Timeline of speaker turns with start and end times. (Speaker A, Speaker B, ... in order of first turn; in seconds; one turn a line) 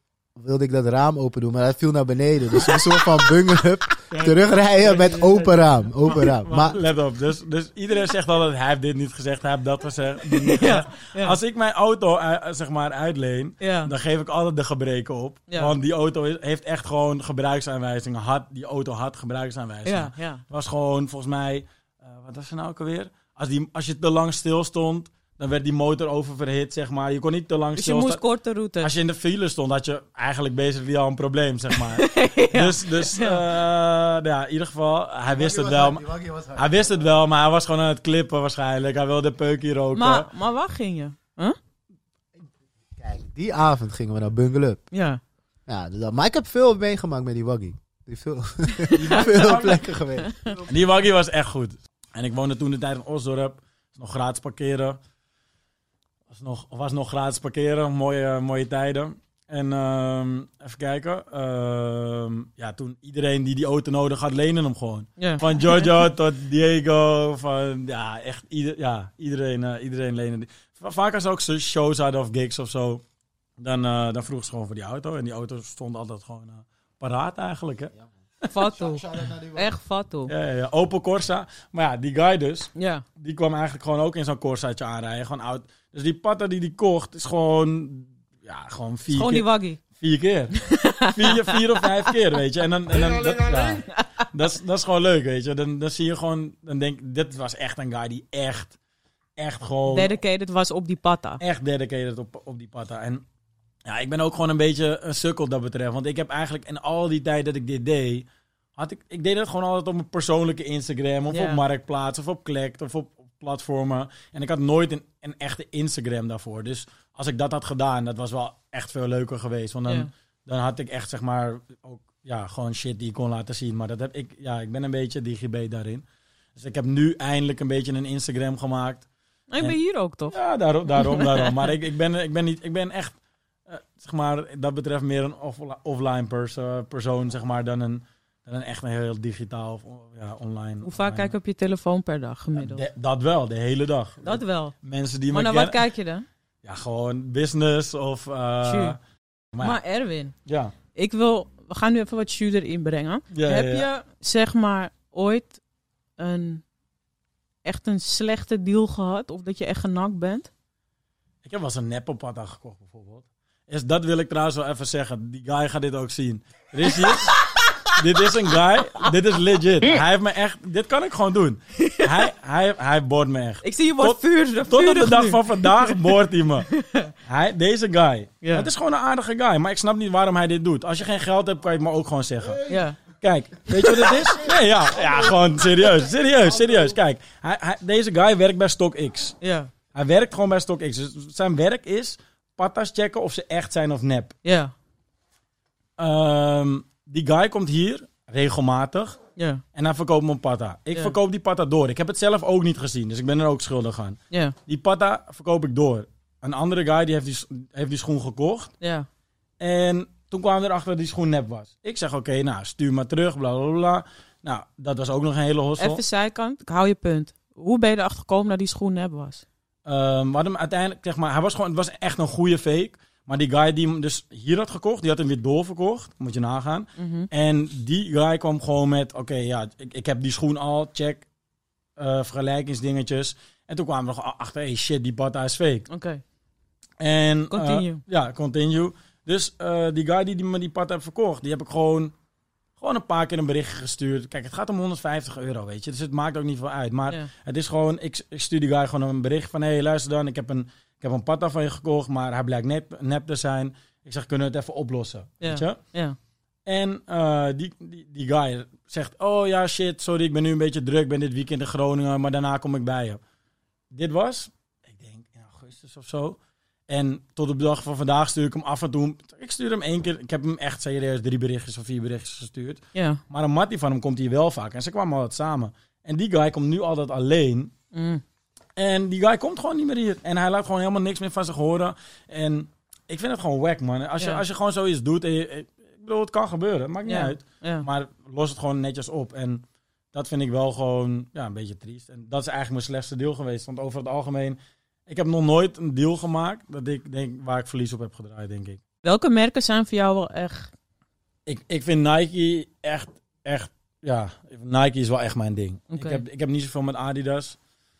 Speaker A: 0.4-6.8
Speaker B: 2.6-2.9
Speaker C: 4.1-28.2
Speaker B: 10.3-11.4
Speaker B: 13.6-13.9
Speaker B: 15.5-15.8
Speaker B: 19.9-20.4
Speaker B: 27.8-28.9
Speaker C: 28.8-40.3
Speaker B: 31.8-33.4
Speaker A: 35.3-37.1
Speaker B: 40.0-41.6
Speaker A: 43.0-44.8
Speaker B: 44.9-45.2
Speaker A: 45.7-50.7
Speaker B: 48.8-49.5
Speaker C: 48.9-50.0
Speaker B: 50.2-50.6
Speaker C: 50.5-55.0
Speaker C: 56.3-73.0
Speaker B: 65.2-65.9
Speaker C: 73.6-78.5
Speaker B: 78.5-80.3
Speaker A: 78.6-79.7
Speaker C: 80.3-98.8
Speaker B: 82.8-83.0
Speaker B: 89.1-89.8
Speaker B: 90.6-91.9
Speaker C: 99.4-100.2
Speaker B: 99.9-101.4
Speaker C: 101.4-103.2
Speaker C: 103.8-129.1
Speaker B: 111.3-111.6
Speaker B: 129.5-130.4
Speaker C: 130.3-141.3
Speaker B: 130.9-131.7
Speaker B: 140.8-142.8
Speaker C: 142.6-145.8
Speaker B: 144.2-144.7
Speaker B: 145.3-146.3
Speaker C: 146.6-149.0
Speaker B: 148.6-149.0
Speaker C: 149.5-149.8
Speaker B: 149.6-150.3
Speaker C: 150.5-150.7
Speaker B: 150.9-155.6
Speaker C: 153.3-153.9
Speaker B: 156.2-156.6
Speaker B: 157.7-160.5
Speaker C: 161.4-176.7
Speaker B: 166.9-167.8
Speaker B: 171.8-172.3
Speaker B: 173.6-176.1
Speaker B: 176.7-177.1
Speaker C: 177.2-189.4
Speaker B: 178.4-178.7
Speaker B: 182.7-183.0
Speaker B: 183.8-184.2
Speaker B: 189.4-189.7
Speaker C: 189.9-194.3
Speaker B: 194.4-194.7
Speaker C: 196.0-199.2
Speaker B: 199.4-199.6
Speaker C: 199.7-208.7
Speaker B: 204.3-204.6
Speaker B: 208.8-209.1
Speaker C: 209.6-216.0
Speaker B: 215.8-219.4
Speaker C: 219.9-231.3
Speaker B: 227.0-227.3
Speaker C: 232.0-235.9
Speaker B: 235.9-236.2
Speaker C: 237.0-242.1
Speaker B: 237.5-238.0
Speaker C: 242.8-255.8
Speaker B: 255.4-256.2
Speaker C: 256.7-263.2
Speaker C: 263.9-277.7
Speaker B: 272.9-273.2
Speaker B: 277.9-278.2
Speaker C: 278.8-298.8
Speaker B: 287.1-287.9
Speaker B: 299.0-300.7
Speaker C: 301.5-307.6
Speaker B: 305.9-306.2